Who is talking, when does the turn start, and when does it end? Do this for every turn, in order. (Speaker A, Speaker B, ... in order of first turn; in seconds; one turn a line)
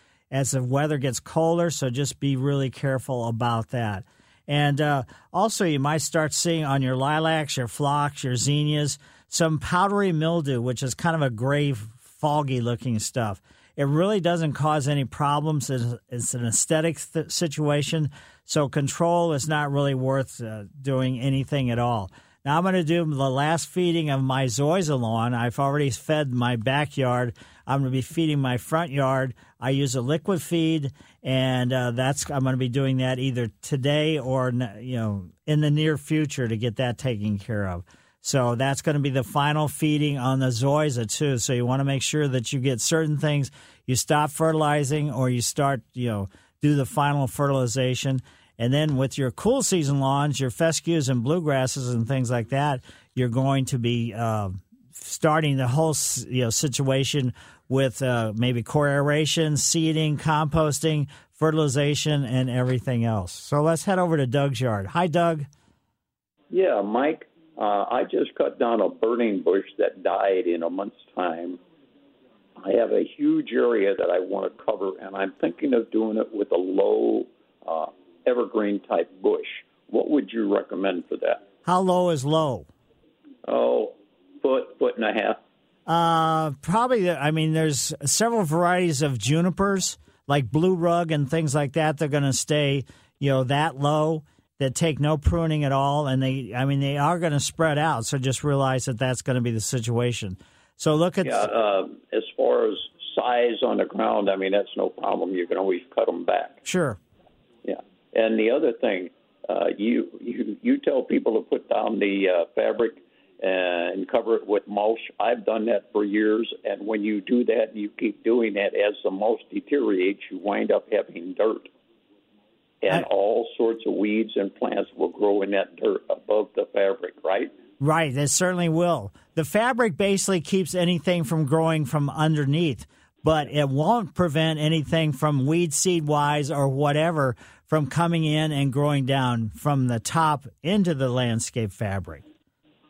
Speaker A: 0.3-65.5
Speaker B: 66.5-71.6
Speaker B: 72.6-81.4
Speaker A: 81.6-82.7
Speaker B: 83.5-85.4
Speaker A: 85.9-101.5
Speaker B: 101.2-106.6
Speaker A: 106.7-107.0
Speaker B: 107.6-121.7
Speaker B: 122.8-127.5
Speaker A: 127.8-142.2